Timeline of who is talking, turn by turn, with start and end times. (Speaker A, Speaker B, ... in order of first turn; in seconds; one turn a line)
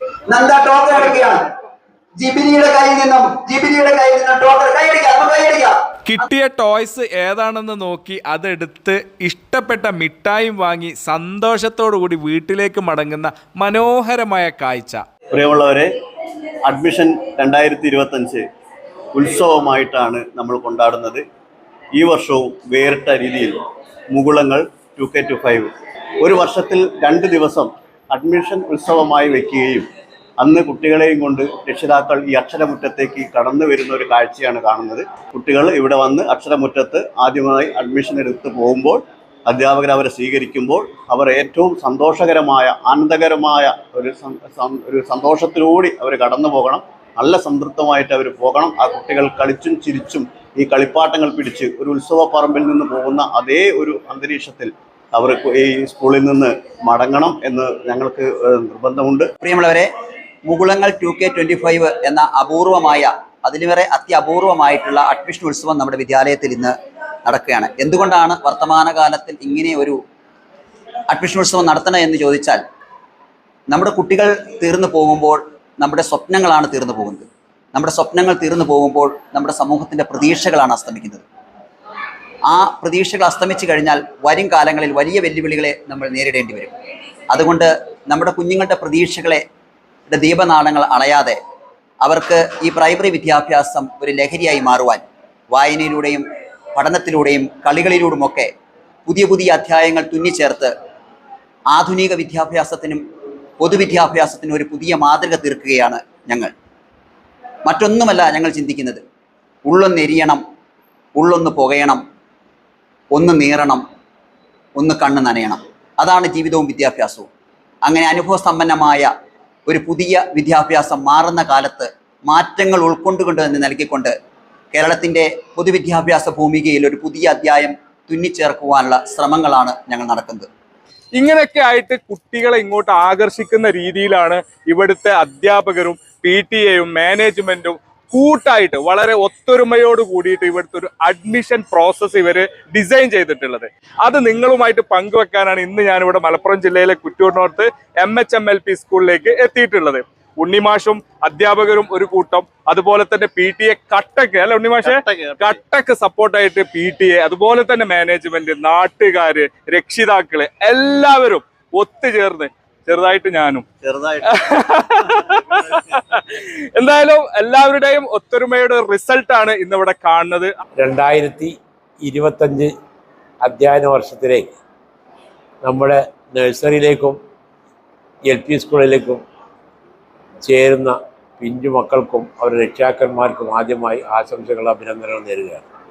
Speaker A: 0.3-1.4
Speaker A: 2.2-6.2
Speaker B: 6.1-15.0
Speaker C: 15.3-15.9
Speaker C: 16.6-18.4
Speaker C: 19.1-21.2
Speaker C: 21.9-23.6
Speaker C: 24.1-25.7
Speaker C: 26.2-29.9
Speaker C: 30.4-59.3
Speaker A: 59.4-59.9
Speaker A: 60.5-66.7
Speaker A: 67.2-70.0
Speaker A: 71.1-72.6
Speaker A: 73.7-81.2
Speaker A: 82.5-86.7
Speaker A: 87.3-89.4
Speaker A: 90.1-91.3
Speaker A: 92.0-96.2
Speaker A: 96.7-98.5
Speaker A: 99.0-100.7
Speaker A: 101.7-103.0
Speaker A: 103.6-106.5
Speaker A: 107.7-109.0
Speaker A: 109.7-110.4
Speaker A: 111.2-112.0
Speaker A: 113.1-113.8
Speaker A: 114.8-117.3
Speaker A: 117.8-119.1
Speaker A: 119.7-124.1
Speaker A: 124.7-130.5
Speaker D: 131.2-163.6
Speaker C: 154.8-155.6
Speaker C: 163.8-164.4
Speaker D: 164.3-170.5
Speaker E: 170.8-172.7
Speaker E: 173.4-174.5
Speaker E: 175.6-177.2
Speaker E: 178.2-179.2
Speaker E: 180.4-185.6